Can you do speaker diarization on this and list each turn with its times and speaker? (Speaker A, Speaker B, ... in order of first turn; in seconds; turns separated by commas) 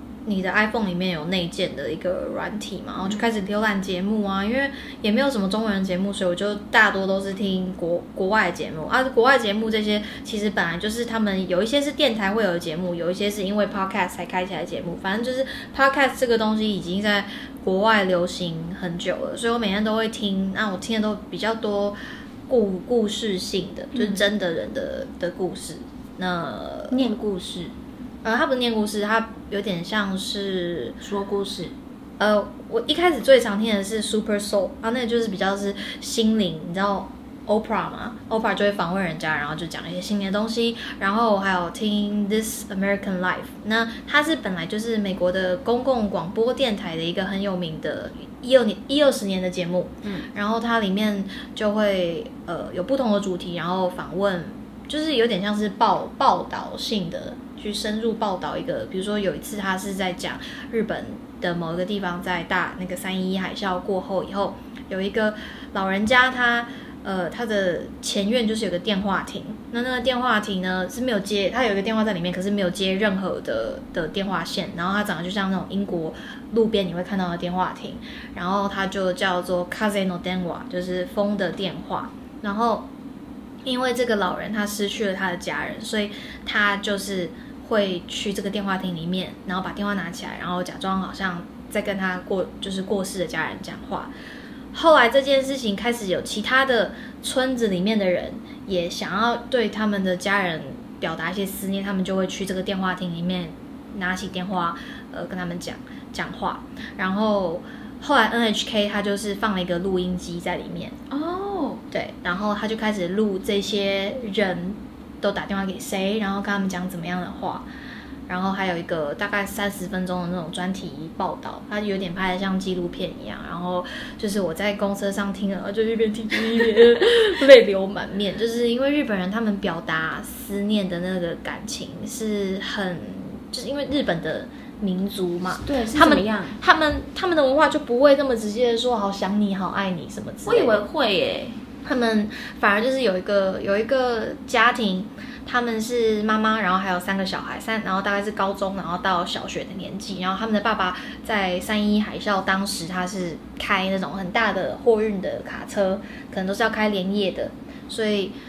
Speaker A: 0.2-22.0, Speaker A: 22.5-27.0, Speaker B: 23.9-24.2, Speaker B: 26.9-27.7, Speaker A: 28.2-31.0, Speaker B: 31.0-31.7, Speaker A: 32.2-82.9, Speaker A: 83.7-94.1, Speaker A: 94.7-111.0, Speaker B: 111.1-111.8, Speaker A: 111.9-117.7, Speaker A: 118.3-140.8, Speaker B: 135.6-136.6, Speaker B: 140.4-141.6, Speaker A: 141.8-158.3